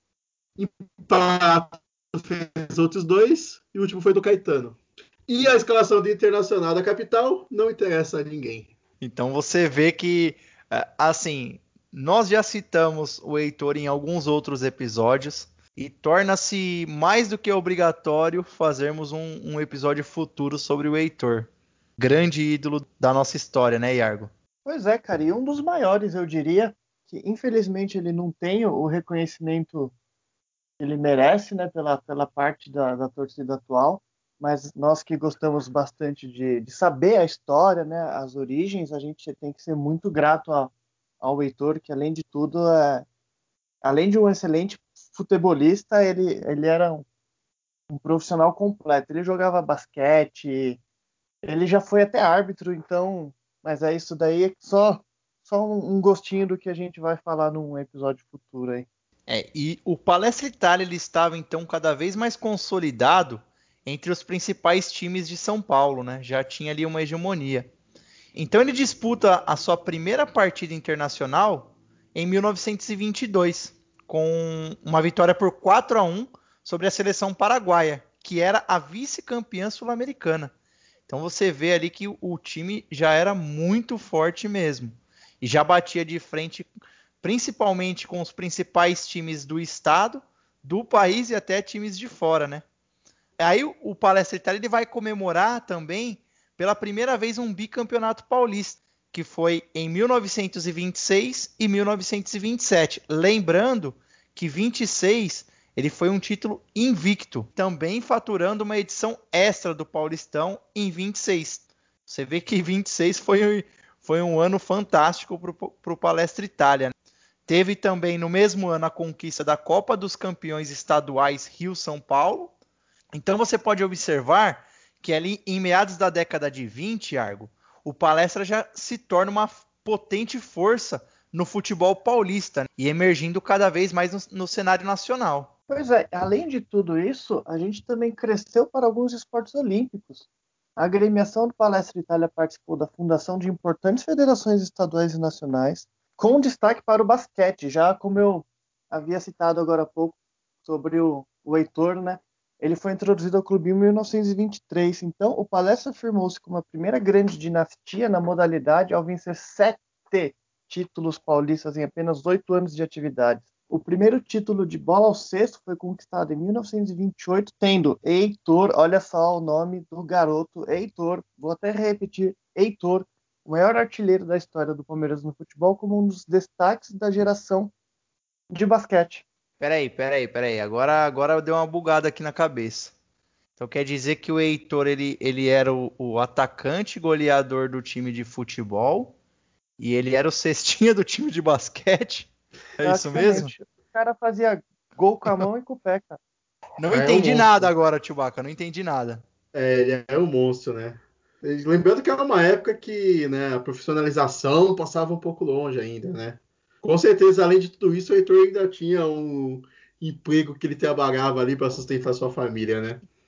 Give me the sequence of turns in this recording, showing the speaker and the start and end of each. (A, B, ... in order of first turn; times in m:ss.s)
0:00.6-0:08.7 A
0:09.0-0:24.3 B
0:24.6-0:29.9 C
0:30.8-0:43.0 C
0:43.8-0:47.0 C
0:47.9-0:50.8 C
0:51.4-0:58.8 C
0:59.3-1:07.7 B
1:08.3-1:20.5 B
1:21.1-1:26.7 B
1:27.2-1:32.6 B
1:33.4-1:56.9 B
1:57.5-2:02.5 B
2:03.1-2:15.5 B
2:15.7-2:57.7 C
2:58.5-2:59.2 C
2:59.6-3:02.9 B
3:03.6-3:09.1 B
3:09.8-3:13.5 B
3:12.8-3:16.2 C
3:13.2-3:13.4 A
3:16.8-3:19.2 B
3:16.9-3:17.7 A
3:19.5-3:33.0 A